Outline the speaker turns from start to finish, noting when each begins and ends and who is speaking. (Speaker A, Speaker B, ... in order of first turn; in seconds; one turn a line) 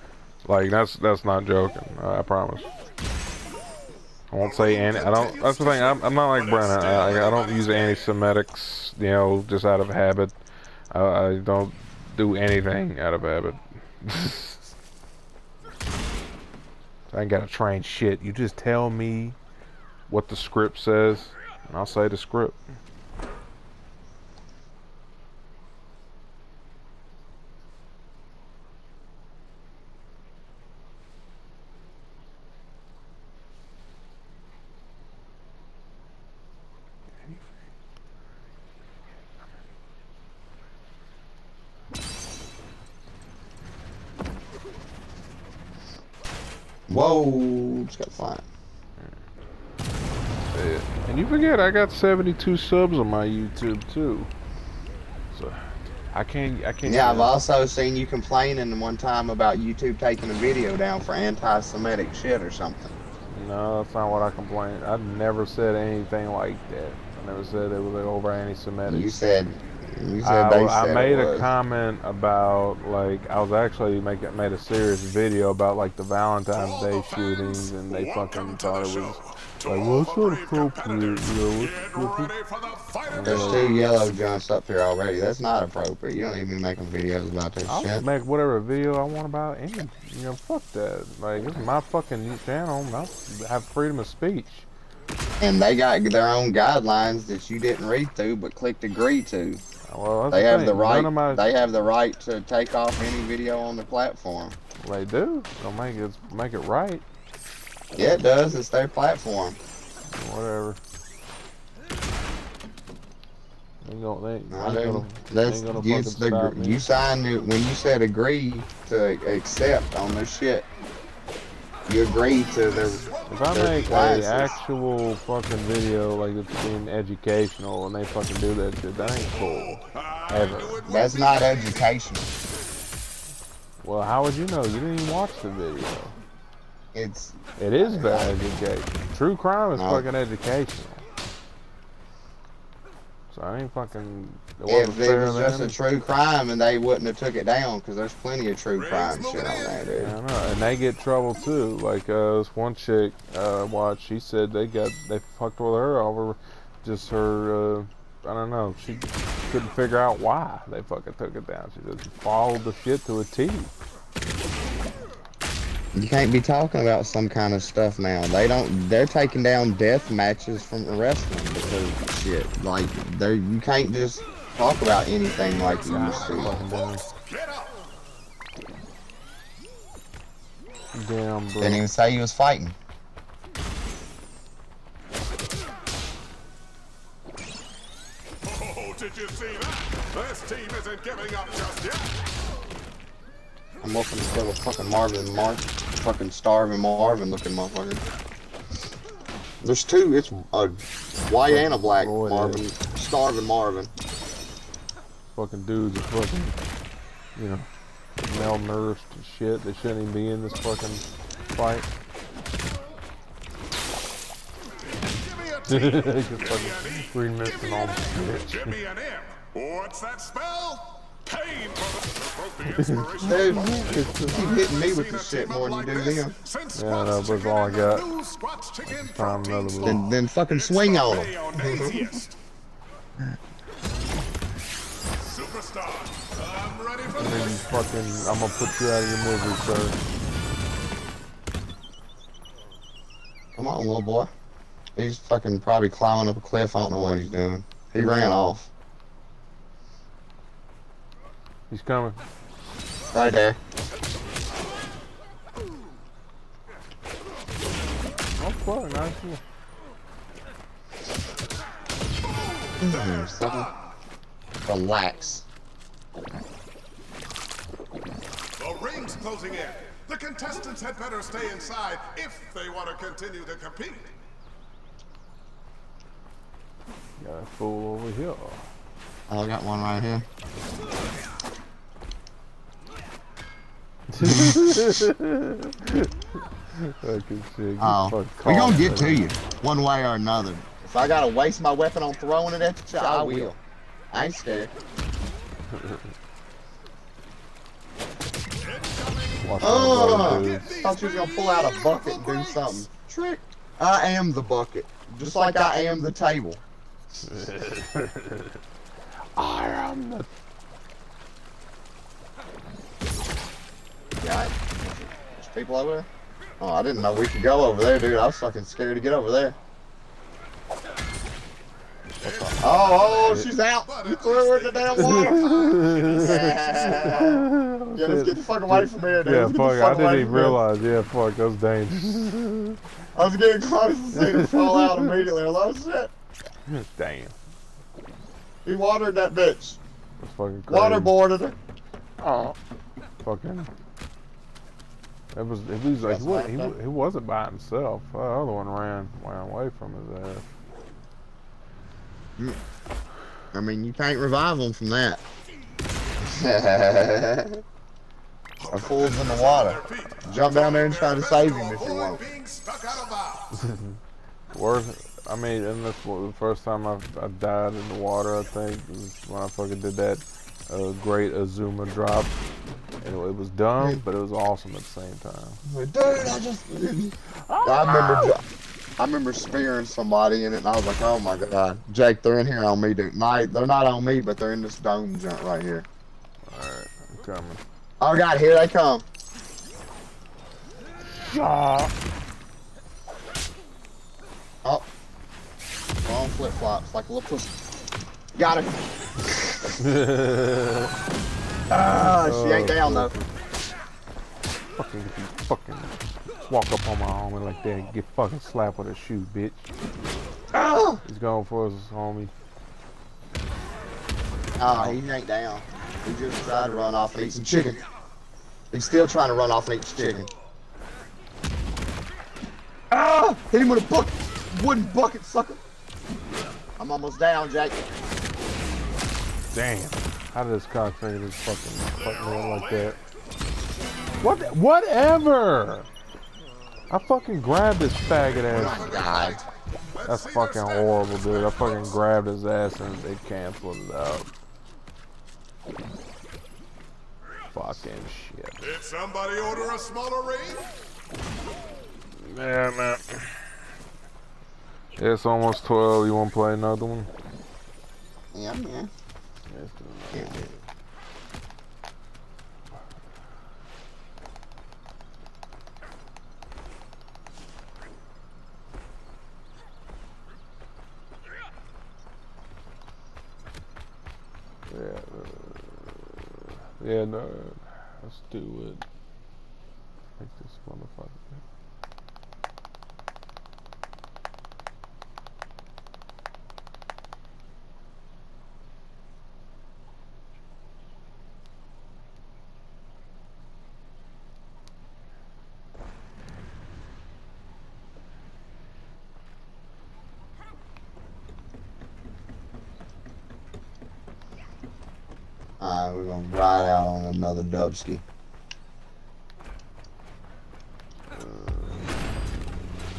Speaker A: 0.4-2.7
Speaker A: 4.3-10.3
Speaker B: 4.4-8.1
Speaker A: 10.9-14.7
Speaker A: 17.1-19.4
Speaker A: 20.1-22.6
Speaker C: 46.9-48.4
Speaker A: 50.5-54.3
Speaker A: 55.3-57.4
Speaker C: 56.8-62.9
Speaker A: 63.3-69.2
Speaker C: 68.9-71.5
Speaker A: 70.2-82.3
Speaker B: 76.5-83.8
Speaker A: 83.1-83.7
Speaker C: 83.2-88.0
Speaker A: 87.6-94.7
Speaker C: 95.4-99.6
Speaker A: 99.9-101.5
Speaker C: 100.3-104.5
Speaker A: 104.8-107.0
Speaker C: 107.9-109.6
Speaker A: 110.1-110.8
Speaker A: 113.8-116.8
Speaker C: 114.5-120.7
Speaker C: 121.9-124.5
Speaker B: 121.9-123.7
Speaker A: 123.2-130.8
Speaker B: 129.5-131.9
Speaker C: 130.8-132.3
Speaker A: 133.8-136.2
Speaker C: 136.9-138.4
Speaker A: 137.6-141.0
Speaker C: 139.8-140.1
Speaker A: 143.3-145.8
Speaker C: 144.7-150.1
Speaker B: 148.7-149.9
Speaker A: 150.0-163.7
Speaker C: 165.9-176.5
Speaker B: 175.2-177.7
Speaker A: 175.7-177.1
Speaker A: 180.9-181.8
Speaker C: 181.6-182.8
Speaker B: 188.4-192.2
Speaker C: 193.8-198.0
Speaker C: 199.6-203.9
Speaker A: 201.4-202.7
Speaker A: 205.3-206.6
Speaker A: 207.3-207.7
Speaker A: 208.2-211.9
Speaker B: 215.0-232.4
Speaker A: 215.7-218.7
Speaker A: 222.7-224.6
Speaker C: 223.2-226.3
Speaker A: 226.7-228.1
Speaker A: 228.8-230.0
Speaker C: 229.8-232.0
Speaker B: 235.2-237.8
Speaker A: 237.2-240.0
Speaker C: 243.6-244.3
Speaker C: 244.9-248.7
Speaker A: 246.8-247.2
Speaker A: 251.7-252.2
Speaker C: 253.1-253.6
Speaker A: 258.4-259.4
Speaker B: 262.4-263.7
Speaker C: 262.8-263.7
Speaker C: 264.6-265.4
Speaker B: 268.6-274.1
Speaker A: 277.2-278.6
Speaker C: 279.3-280.2
Speaker A: 284.1-286.1
Speaker C: 284.2-285.1
Speaker A: 286.7-289.3
Speaker C: 287.8-293.6
Speaker A: 292.9-293.5
Speaker C: 294.1-294.7
Speaker A: 295.7-296.0
Speaker B: 298.6-302.9
Speaker A: 299.4-300.7
Speaker C: 299.6-306.6
Speaker A: 307.2-308.5
Speaker A: 309.4-310.3
Speaker C: 314.2-316.1
Speaker C: 316.6-319.6
Speaker B: 322.2-327.2
Speaker C: 322.6-330.6
Speaker A: 324.9-332.8
Speaker C: 333.1-336.1
Speaker A: 334.2-335.1
Speaker A: 336.7-337.3
Speaker C: 338.6-339.8
Speaker A: 340.2-341.1
Speaker C: 340.7-341.6
Speaker A: 342.3-342.5
Speaker A: 343.2-343.7
Speaker A: 345.3-350.4
Speaker C: 346.0-346.8
Speaker C: 352.4-352.6
Speaker C: 353.5-355.2
Speaker C: 356.2-357.6
Speaker B: 358.6-363.5
Speaker C: 358.7-362.2
Speaker A: 363.5-364.0
Speaker A: 364.5-372.3
Speaker A: 373.0-375.6
Speaker C: 375.6-378.4
Speaker A: 377.3-378.4
Speaker C: 379.0-385.9
Speaker A: 386.5-387.6
Speaker C: 388.0-389.1
Speaker A: 391.1-391.9
Speaker C: 396.0-397.5
Speaker C: 398.3-399.8
Speaker A: 399.8-400.9
Speaker C: 401.7-403.1
Speaker A: 401.9-403.3
Speaker A: 404.8-405.9
Speaker A: 406.5-409.7
Speaker C: 410.5-411.0
Speaker A: 411.0-412.3
Speaker C: 414.6-417.8
Speaker A: 414.7-415.0
Speaker C: 418.7-420.3
Speaker C: 422.9-425.6
Speaker C: 426.8-427.8
Speaker A: 429.5-432.9
Speaker B: 431.9-433.0
Speaker A: 434.2-435.9
Speaker A: 436.9-438.9
Speaker B: 438.1-442.0
Speaker C: 438.5-439.4
Speaker A: 440.0-444.3
Speaker A: 447.5-448.7
Speaker B: 448.6-450.7
Speaker A: 452.2-453.4
Speaker A: 454.9-457.1
Speaker C: 458.3-458.9
Speaker A: 459.5-460.6
Speaker C: 460.1-460.4
Speaker A: 474.7-478.8
Speaker A: 480.2-481.4
Speaker C: 505.6-508.0
Speaker A: 511.1-511.8